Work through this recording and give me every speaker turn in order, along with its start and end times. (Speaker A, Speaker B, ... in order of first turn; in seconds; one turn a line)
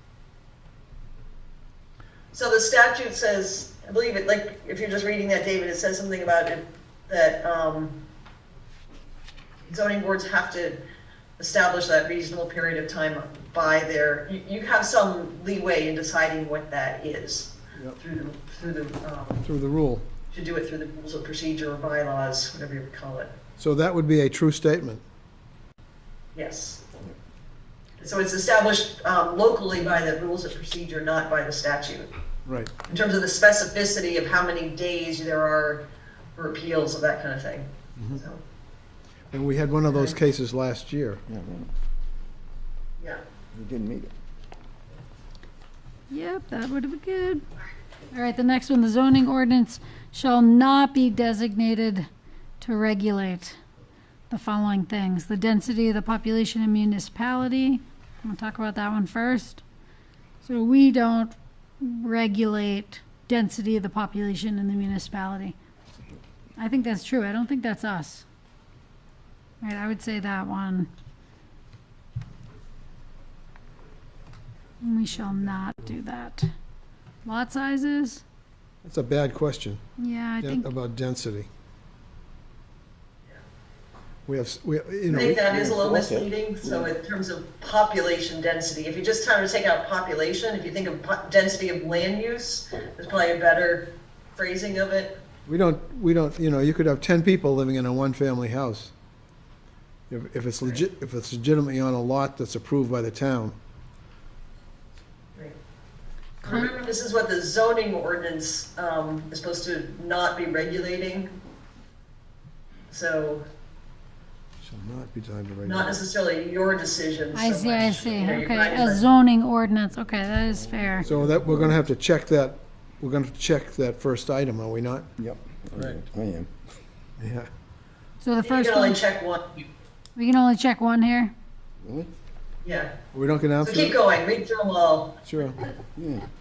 Speaker A: 2.3-8.0
Speaker A: 9.7-10.8
Speaker A: 11.4-19.5
Speaker B: 19.4-20.1
Speaker A: 20.3-23.3
Speaker B: 23.6-25.0
Speaker A: 26.3-26.9
Speaker A: 28.0-32.1
Speaker B: 32.5-32.7
Speaker A: 32.9-38.4
Speaker B: 39.3-41.2
Speaker A: 39.9-40.1
Speaker C: 41.3-41.7
Speaker C: 43.5-44.1
Speaker D: 46.1-47.4
Speaker D: 48.1-52.1
Speaker D: 52.6-53.6
Speaker D: 54.3-59.6
Speaker D: 60.4-65.5
Speaker D: 66.6-68.2
Speaker D: 69.6-70.9
Speaker D: 74.8-76.5
Speaker D: 77.2-78.2
Speaker B: 78.8-79.8
Speaker D: 80.0-80.7
Speaker B: 80.4-81.5
Speaker B: 84.3-85.5
Speaker A: 85.1-95.2
Speaker C: 85.4-86.9
Speaker B: 95.5-98.9
Speaker B: 100.1-103.5
Speaker A: 106.4-111.3
Speaker A: 112.9-113.5
Speaker B: 114.6-116.0
Speaker A: 115.6-119.0
Speaker D: 117.3-121.1
Speaker B: 121.0-125.1
Speaker C: 121.0-121.7
Speaker C: 125.2-126.5
Speaker B: 127.2-127.5
Speaker D: 128.2-129.0
Speaker A: 128.4-129.7
Speaker D: 130.2-131.3
Speaker C: 131.8-132.1
Speaker A: 132.6-132.9
Speaker B: 133.1-134.0
Speaker A: 133.6-135.2
Speaker B: 135.2-135.6
Speaker C: 135.9-136.3